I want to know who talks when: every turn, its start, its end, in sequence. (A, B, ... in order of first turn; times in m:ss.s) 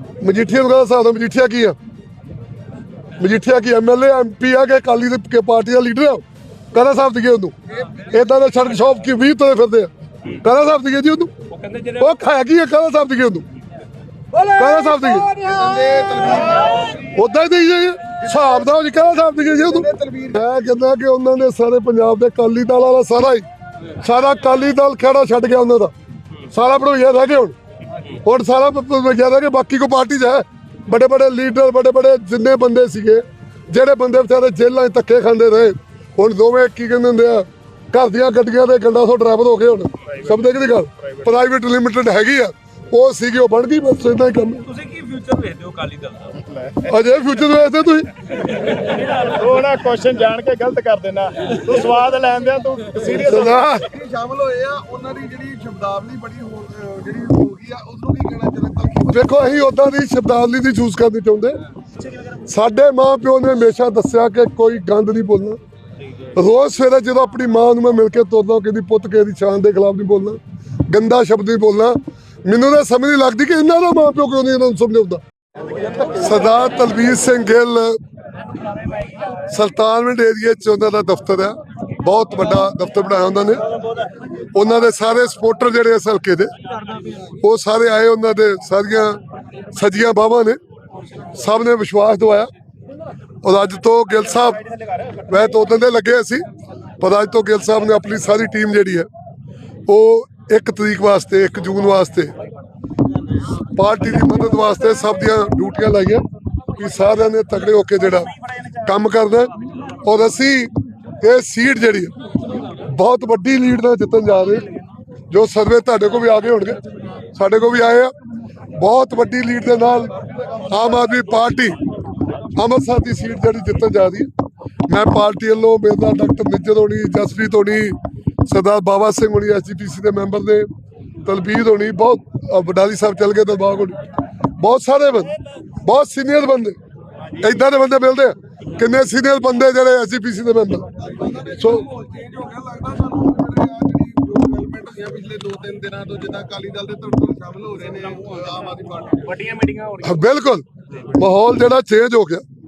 0:00.2-0:01.7 A
0:03.2-0:07.5 A
0:08.1-0:09.9 A
0:10.4-0:11.3 A
0:11.5-0:12.2 B
0:12.0-0:13.4 A
0:14.3-0:15.9 C
0:14.4-0:15.4 A
0:15.4-0:17.1 D
0:17.1-0:23.4 A
0:18.2-0:18.7 D
0:19.5-0:20.4 D
0:24.0-0:25.9 A
0:26.5-0:27.5 A
0:28.2-0:44.6 A
0:44.6-0:46.5 B
0:46.8-0:48.1 A
0:48.8-0:53.8 C
0:53.2-0:53.8 A
0:53.3-0:59.5 D
0:59.1-1:01.6 A
1:02.4-1:05.6 A
1:06.3-1:15.2 A
1:16.0-1:18.0 A
1:19.4-1:23.6 A
1:24.5-1:26.5 A
1:27.2-1:29.2 A
1:29.7-1:30.6 A
1:31.3-1:32.5 A
1:33.4-1:34.6 A
1:35.2-1:36.4 A
1:37.0-1:39.1 A
1:39.9-1:42.3 A
1:43.6-1:46.2 A
1:46.8-1:52.1 A
1:52.7-1:54.7 A
1:55.3-1:56.8 A
1:57.3-1:58.1 A
1:58.8-2:01.8 A
2:00.2-2:01.3 D
2:02.6-2:04.3 A
2:04.9-2:10.7 A
2:11.2-2:14.0 A
2:14.6-2:16.8 A
2:17.4-2:20.9 A
2:21.0-2:29.4 D
2:21.6-2:21.8 A
2:29.4-2:30.0 C
2:30.0-2:32.4 A